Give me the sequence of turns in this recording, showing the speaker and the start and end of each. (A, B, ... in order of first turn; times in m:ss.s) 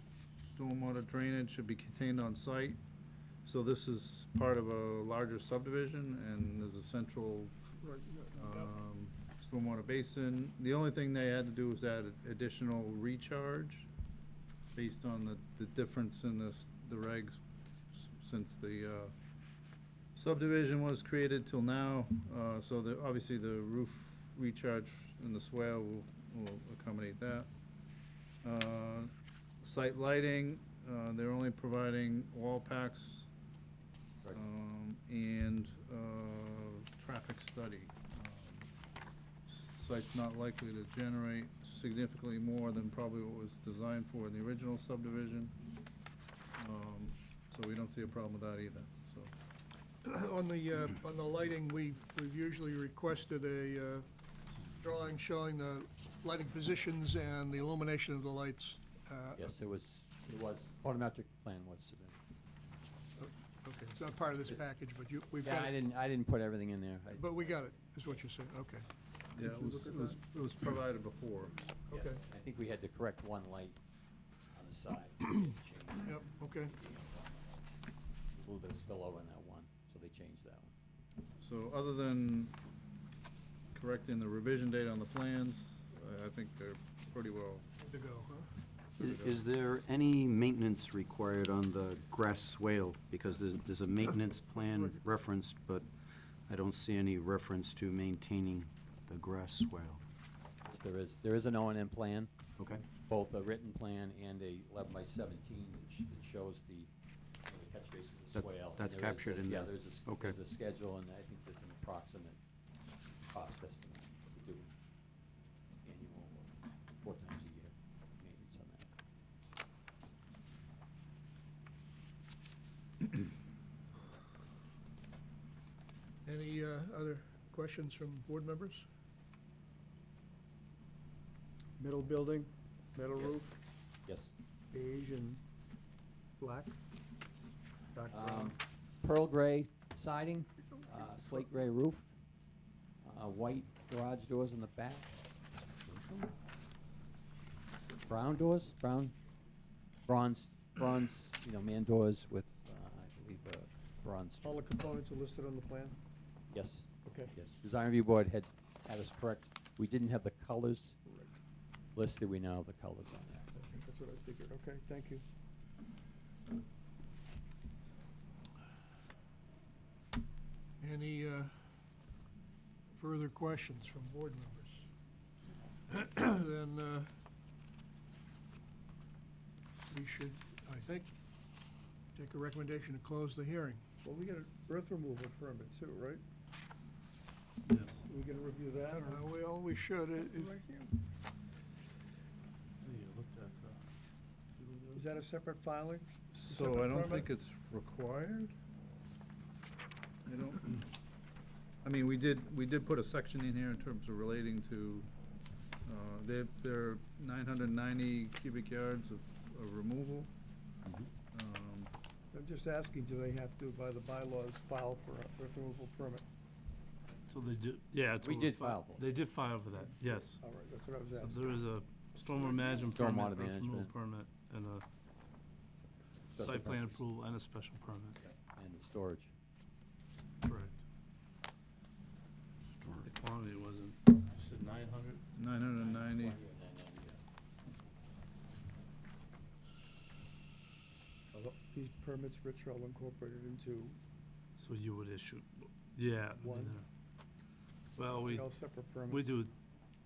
0:00.4-0:02.8 A
0:03.4-0:07.8 A
0:07.8-0:08.7 B
0:08.3-0:13.9 A
0:14.7-0:17.4 A
0:17.9-0:19.1 A
0:20.1-0:27.5 A
0:28.4-0:29.1 A
0:29.6-0:33.3 A
0:34.3-0:38.7 A
0:39.5-0:45.5 A
0:46.6-0:49.3 A
0:50.0-0:54.0 B
0:54.8-0:59.5 B
0:59.3-1:02.2 C
1:03.2-1:05.7 B
1:05.4-1:08.2 C
1:07.1-1:08.9 B
1:09.3-1:11.6 A
1:09.6-1:10.1 D
1:11.9-1:12.2 B
1:11.9-1:13.8 C
1:14.5-1:20.7 C
1:16.0-1:16.7 B
1:21.4-1:22.5 A
1:23.7-1:27.6 A
1:27.8-1:28.5 B
1:29.0-1:35.9 E
1:29.0-1:29.4 A
1:36.5-1:40.0 E
1:40.6-1:42.3 C
1:42.6-1:42.9 E
1:43.0-1:46.9 C
1:47.4-1:52.4 C
1:48.3-1:50.4 E
1:53.3-1:54.7 C
1:55.8-1:58.9 C
2:06.2-2:08.8 B
2:11.8-2:13.6 D
2:13.2-2:13.4 C
2:14.0-2:14.3 C
2:14.7-2:15.4 D
2:16.4-2:16.7 D
2:17.9-2:18.5 D
2:18.1-2:22.1 C
2:23.0-2:25.2 C
2:25.9-2:26.3 E
2:28.0-2:29.1 C
2:30.1-2:34.7 C
2:34.4-2:36.0 D
2:36.5-2:41.0 C
2:37.0-2:37.4 D
2:41.0-2:41.4 D
2:41.9-2:43.5 C
2:43.7-2:45.2 D
2:50.8-2:51.5 B
2:52.9-2:54.8 B
2:55.9-2:57.1 B
2:59.9-3:01.1 B
3:02.1-3:03.8 B
3:04.0-3:06.2 D
3:07.6-3:08.0 F
3:08.0-3:09.3 D
3:09.0-3:10.6 B
3:10.3-3:10.9 D
3:12.8-3:13.8 F
3:14.6-3:15.0 F
3:14.9-3:17.3 D
3:16.3-3:18.5 A
3:20.2-3:20.8 A
3:21.8-3:25.1 A
3:25.8-3:30.3 A
3:31.3-3:31.9 A
3:32.3-3:36.2 D
3:37.3-3:40.4 F
3:38.2-3:39.1 C
3:40.2-3:41.5 D
3:41.2-3:44.8 F
3:42.9-3:43.9 C
3:46.3-3:47.0 C
3:46.4-3:48.2 F
3:48.3-3:49.3 C
3:50.4-3:50.7 F
3:53.0-3:55.2 F
3:55.4-3:56.4 A
3:55.7-3:57.2 C
4:01.3-4:04.0 D
4:04.6-4:06.8 F
4:06.4-4:06.8 D
4:08.0-4:08.5 F
4:08.2-4:09.4 D
4:09.0-4:09.5 F